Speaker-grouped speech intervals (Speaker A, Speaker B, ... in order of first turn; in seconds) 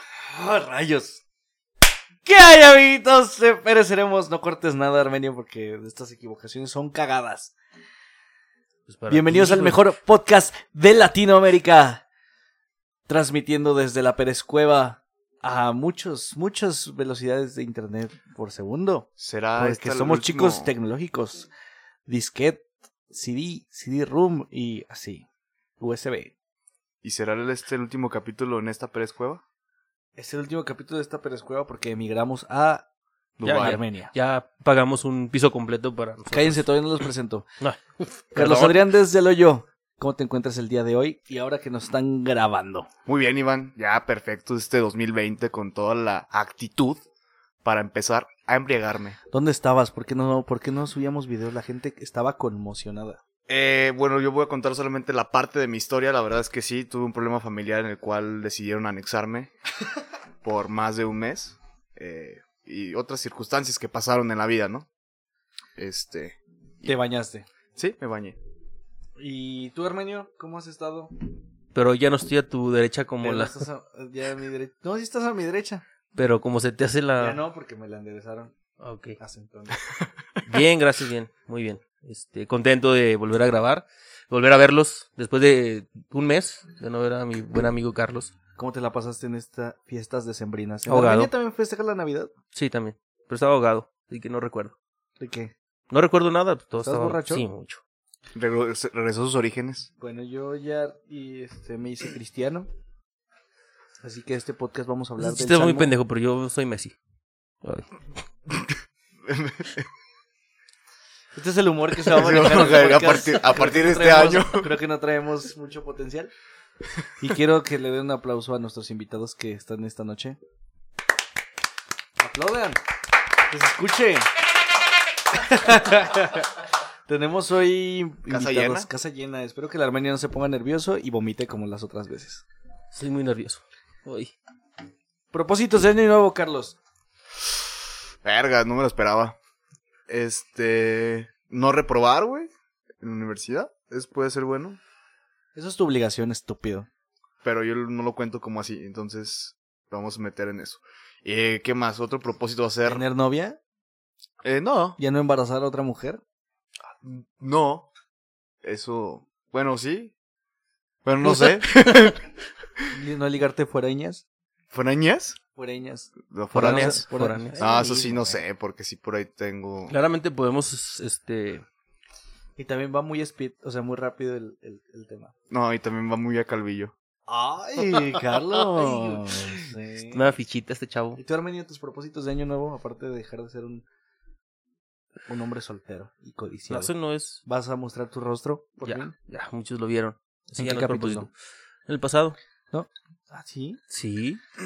Speaker A: 0.2-1.2, 2.2-7.5, 9.1-12.0, 13.1-21.5, 22.1-25.3, 25.8-26.3, 30.2-32.9, 33.4-34.1, 36.3-37.5, 38.4-42.9, 49.3-53.2, 66.8-67.5, 69.2-71.1, 73.2-75.8, 77.2-78.5, 79.2-79.8, 88.6-92.3, 95.2-95.5, 96.8-97.5, 100.0-102.7, 104.0-105.9, 111.3-116.3, 117.2-120.4, 122.2-122.8, 123.5-124.3, 125.3-132.4, 135.3-136.8, 145.6-146.9, 152.8-153.6, 155.0-156.2, 162.9-164.2, 165.6-168.4, 172.6-175.3, 177.3-180.3, 181.2-183.8, 185.3-186.9, 187.4-189.1, 190.5-191.3, 192.7-193.8
Speaker B: 8.9-9.9, 33.4-36.6, 37.6-38.9, 71.8-73.6, 76.2-77.4, 78.8-79.2, 80.5-88.3, 90.9-91.3, 92.5-94.8, 95.9-97.8, 105.2-107.0, 107.6-107.9, 132.9-134.3, 161.2-162.2, 166.5-168.0, 169.9-171.6, 178.7-179.5, 180.1-181.2, 186.7-187.4, 188.8-191.3, 191.9-192.4, 193.9-194.4
Speaker C: 19.2-20.7, 27.0-29.4, 33.4-33.8, 43.1-47.0, 47.6-49.2, 53.5-59.5, 60.4-64.9, 65.8-66.4, 67.8-68.4, 98.3-99.9, 108.5-109.9, 112.1-114.7, 128.3-128.9, 138.2-139.4, 140.1-142.5, 143.0-144.8, 147.4-153.0, 154.4-155.0, 156.9-157.9, 158.6-160.1, 161.1-162.2, 164.7-165.4, 166.3-167.1, 167.6-169.9, 175.5-176.9